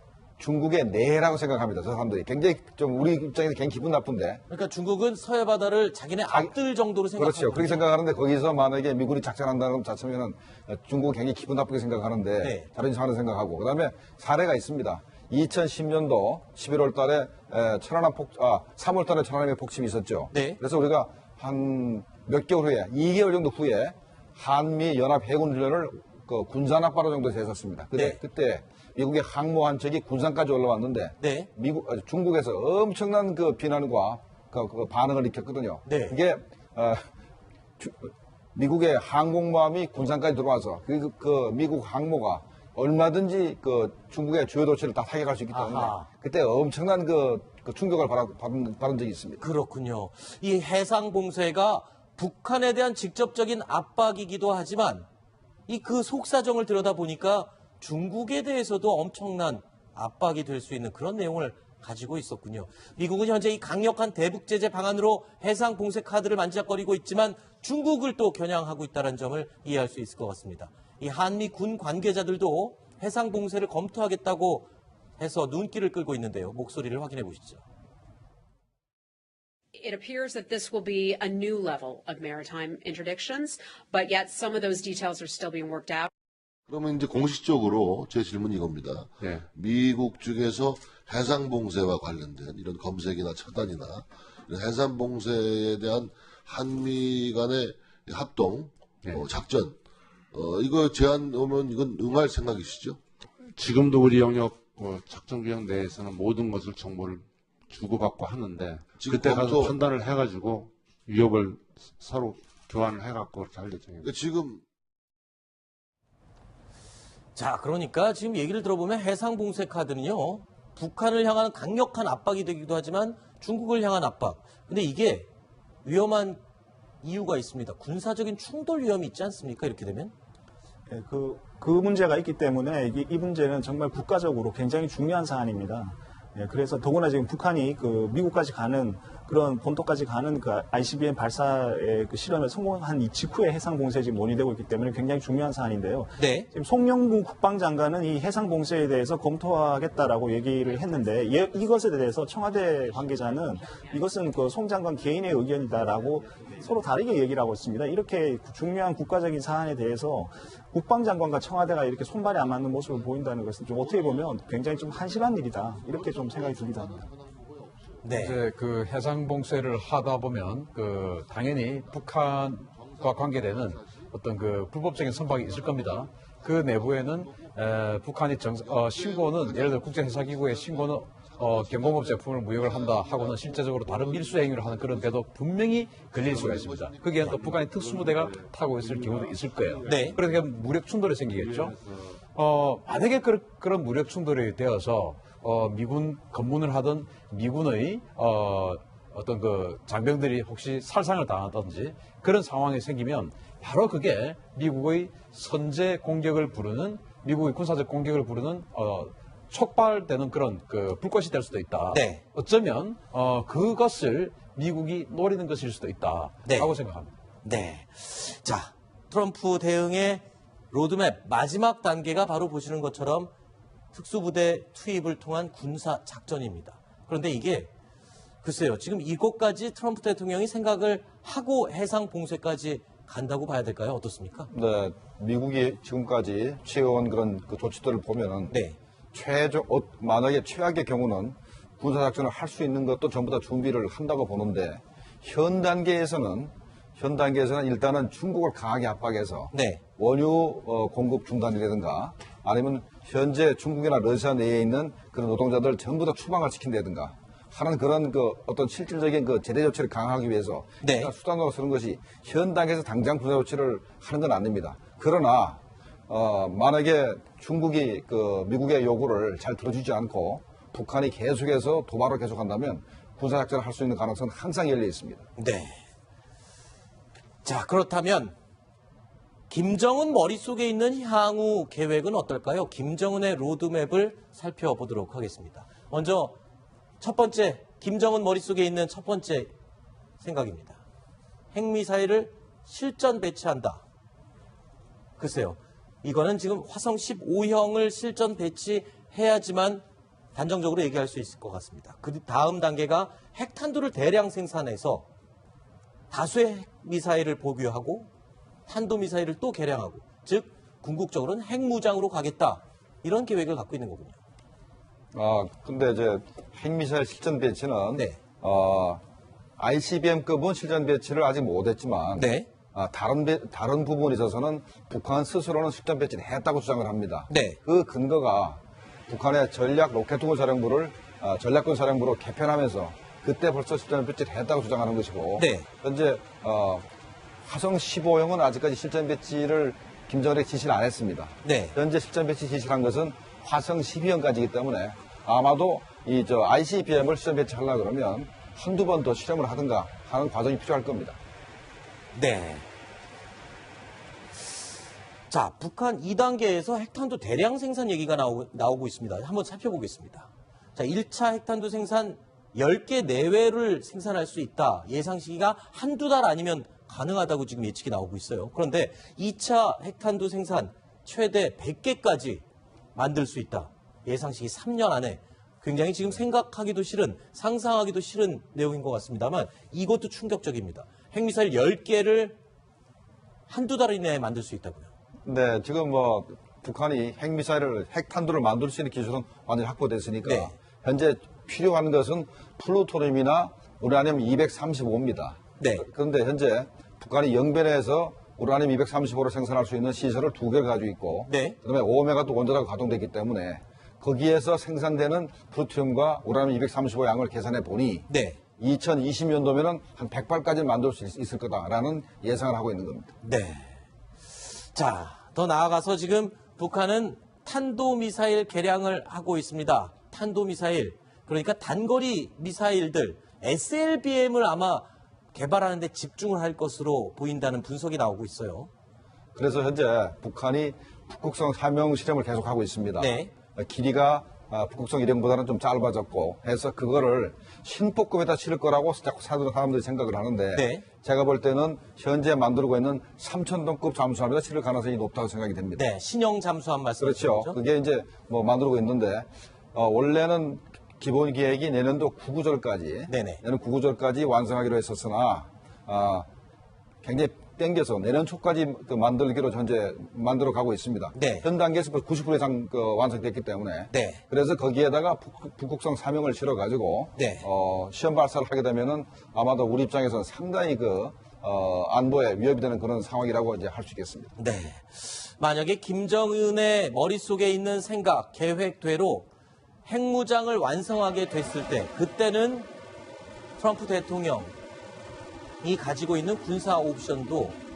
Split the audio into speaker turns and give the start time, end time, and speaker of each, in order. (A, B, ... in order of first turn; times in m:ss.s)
0:00.4-0:04.4 A
0:04.5-0:07.8 B
0:06.3-0:06.5 A
0:07.2-0:37.1 A
0:12.4-0:12.6 B
0:20.3-0:20.6 B
0:27.9-0:28.2 B
0:31.2-0:31.5 B
0:35.9-0:36.2 B
0:37.8-0:49.4 A
0:45.5-0:46.1 B
0:49.4-0:55.1 B
0:55.7-1:17.6 B
1:19.8-1:26.1 C
1:26.7-1:39.8 D
1:29.2-1:29.5 E
1:39.0-1:39.4 E
1:40.3-1:43.0 D
1:43.4-1:54.1 E
1:49.0-1:49.8 D
1:54.0-1:54.6 D
1:57.4-2:05.3 B
2:05.8-2:06.4 B
2:07.0-2:10.1 B
2:10.9-2:47.1 F
2:26.2-2:26.5 B
2:42.3-2:43.1 D
2:43.7-2:48.3 D
2:48.0-2:48.4 B
2:48.1-3:11.8 G
2:51.5-2:54.1 D
2:54.9-3:05.4 D
3:05.9-3:08.3 D
3:06.2-3:06.6 E
3:07.1-3:10.4 E
3:09.5-3:10.1 D
3:09.8-3:10.2 B
3:11.3-3:12.2 E
3:12.3-3:37.1 G
3:31.9-3:32.2 B
3:36.4-3:36.7 B
3:37.4-3:43.3 B
3:43.9-3:47.7 B
3:48.4-3:54.5 B
3:54.5-3:58.6 A
3:58.5-3:58.8 B
3:59.1-4:35.3 A
4:09.5-4:09.8 B
4:20.8-4:21.1 B
4:35.4-4:35.9 B
4:37.4-4:38.4 B
4:39.5-4:46.4 B
4:47.0-4:49.5 B
4:50.2-4:50.8 B
4:51.5-4:53.8 B
4:55.2-4:59.8 B
5:00.4-5:05.0 B
5:06.1-5:08.1 B
5:08.7-5:14.2 B
5:15.1-5:19.0 A
5:19.6-5:36.9 A
5:22.2-5:22.5 B
5:27.3-5:27.6 B
5:35.4-5:35.7 B
5:37.4-5:51.2 A
5:41.4-5:41.8 B
5:52.1-5:52.6 B
5:55.3-6:12.4 B
6:13.0-6:22.4 B
6:23.5-6:24.9 B
6:25.2-6:53.1 A
6:30.2-6:30.5 B
6:35.6-6:35.9 B
6:41.3-6:41.6 B
6:48.1-6:48.4 B
6:53.2-7:08.7 B
7:09.4-7:25.8 A
7:13.0-7:13.3 B
7:20.5-7:20.8 B
7:25.8-7:27.6 B
7:27.0-7:36.3 A
7:33.1-7:33.4 B
7:37.0-7:54.3 A
7:41.1-7:41.5 B
7:43.9-7:44.2 B
7:47.2-7:47.5 B
7:54.4-7:59.3 B
7:59.9-8:02.7 B
8:03.6-8:04.5 B
8:05.6-8:07.6 B